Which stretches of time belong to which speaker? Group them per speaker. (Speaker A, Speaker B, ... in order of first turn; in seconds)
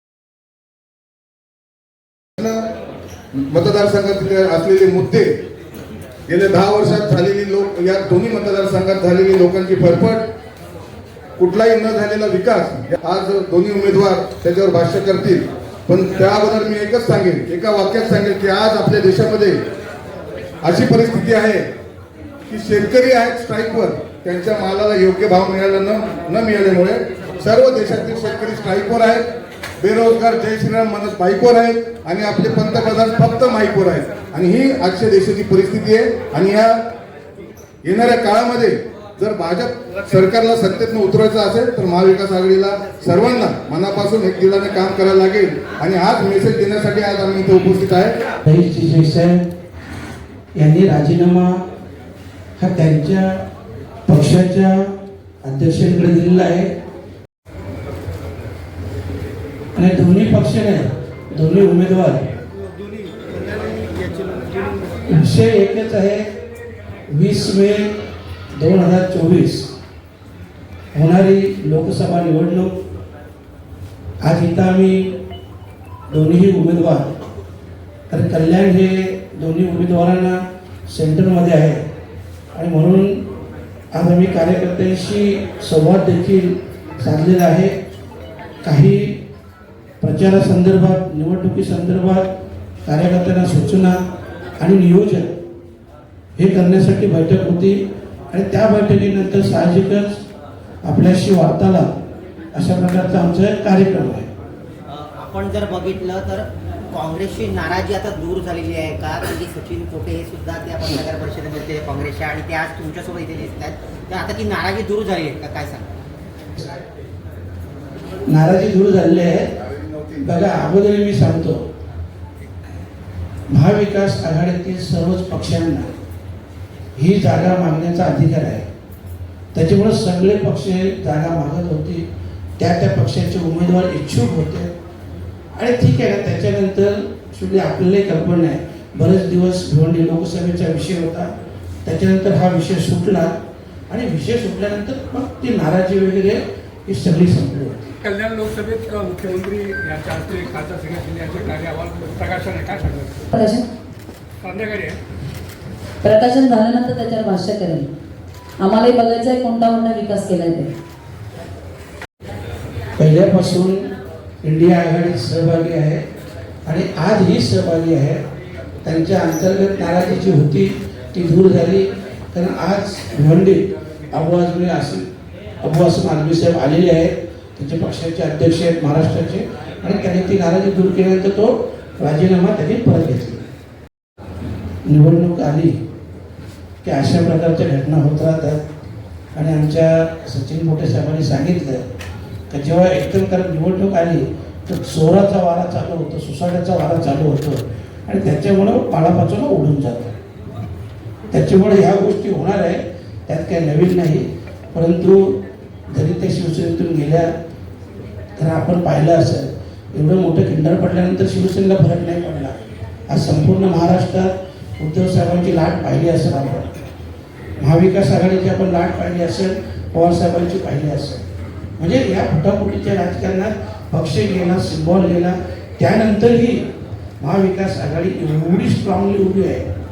Speaker A: 2.4-2.6, 3.5-5.3, 6.3-10.3, 11.4-19.6, 20.6-21.7, 22.5-29.2, 29.8-36.8, 37.8-48.2
Speaker B: 48.5-49.5, 50.6-51.6, 52.6-53.4, 54.1-56.7, 59.8-62.2, 65.1-66.3, 67.1-68.0, 68.5-69.7, 70.9-72.7, 74.2-75.2, 76.1-77.2, 78.1-81.8, 82.5-83.3, 83.9-87.8, 88.6-89.2, 90.0-92.3, 92.8-94.0, 94.6-95.4, 96.4-100.2, 100.8-101.9, 102.5-104.3, 118.3-119.6, 120.2-121.7, 123.5-126.0, 127.0-128.7, 129.5-132.1, 132.6-134.7, 135.6-141.3, 141.8-143.4, 143.9-147.9, 163.0-163.9, 164.4-166.1, 166.7-168.2, 168.8-175.1, 175.6-183.5, 184.8-185.8, 186.8-188.6, 189.3-191.9, 192.5-200.1, 201.3-207.3, 208.4-216.7, 217.6-221.3, 221.8-226.7, 227.2-229.7
Speaker C: 105.2-115.9
Speaker D: 148.1-153.2, 154.4-155.0
Speaker E: 153.3-153.7, 156.0-157.9, 158.6-160.7